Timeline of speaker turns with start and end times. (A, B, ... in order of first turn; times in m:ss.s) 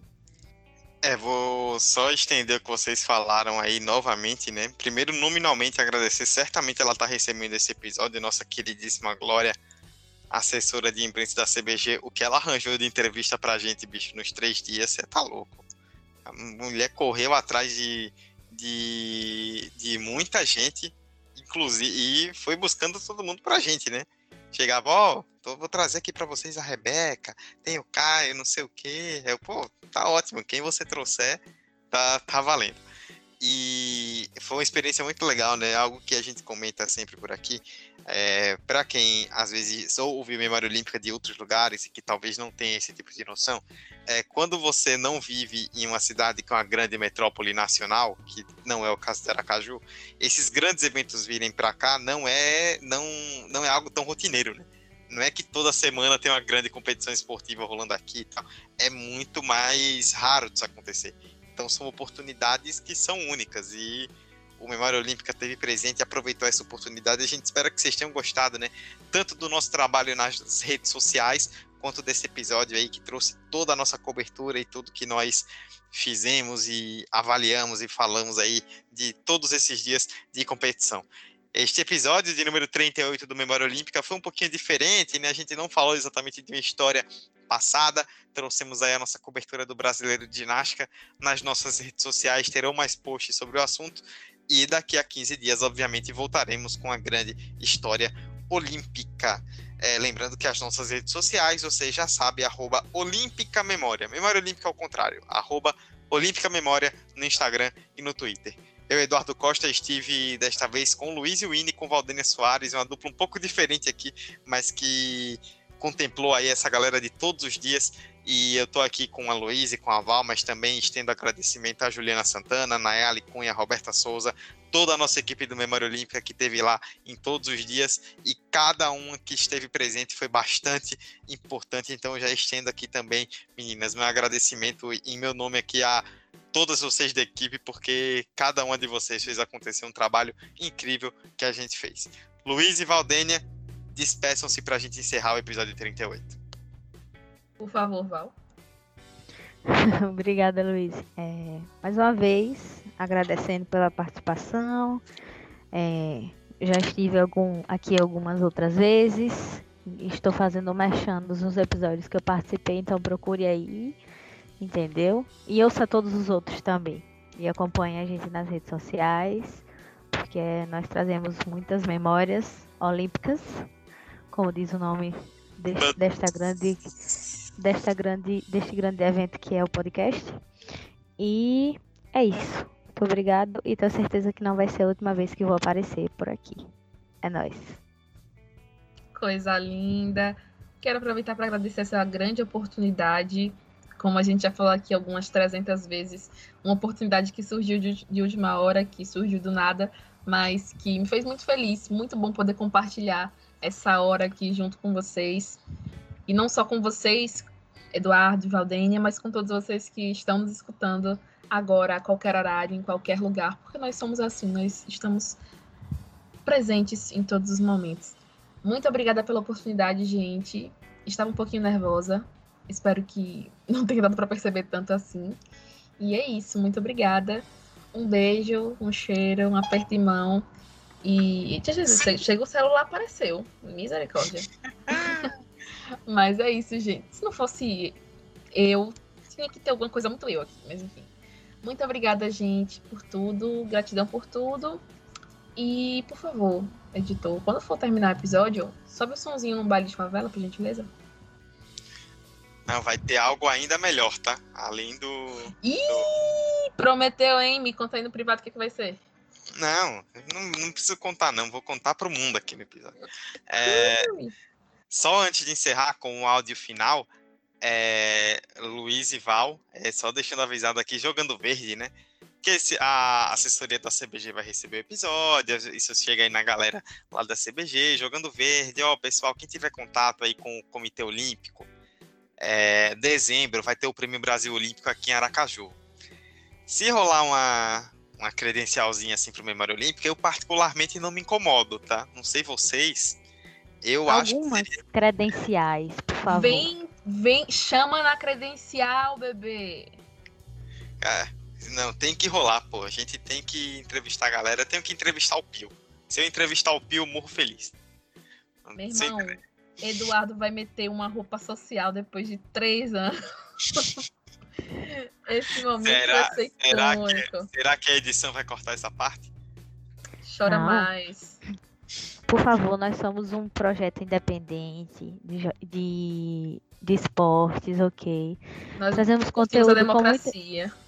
0:01.0-0:09.6 A
0:10.3-0:15.6 A
0:16.2-0:32.8 A
0:33.4-2:26.4 A
2:27.6-2:28.3 B
2:29.6-2:35.0 C
2:35.7-2:44.0 C
2:44.6-2:53.6 C
2:54.3-2:56.9 C
2:55.7-2:56.0 A
2:57.6-3:00.4 C
3:01.2-3:06.6 C
3:07.2-3:07.8 C
3:09.1-3:25.6 B
3:26.3-3:35.4 B
3:36.4-3:45.4 B
3:46.0-3:50.4 B
3:51.0-3:55.3 B
3:54.9-3:55.3 A
3:56.0-3:58.0 B
3:58.5-4:01.1 B
4:01.6-4:04.8 B
4:05.6-4:10.9 B
4:12.7-4:16.1 A
4:15.6-4:19.0 B
4:19.5-4:22.9 A
4:23.5-4:24.1 A
4:23.6-4:24.3 B
4:24.9-4:27.1 A
4:27.6-4:41.7 A
4:42.4-4:45.7 A
4:46.7-4:53.2 A
4:53.8-4:54.8 A
4:54.1-4:56.7 C
4:56.3-5:00.0 B
5:01.0-5:07.7 A
5:08.6-5:09.4 A
5:08.8-5:13.1 B
5:13.7-5:14.0 B
5:14.8-5:17.5 B
5:15.8-5:19.3 A
5:20.2-5:21.4 B
5:20.4-5:20.9 C
5:22.3-5:28.4 C
5:28.8-5:30.7 B
5:28.9-5:30.3 C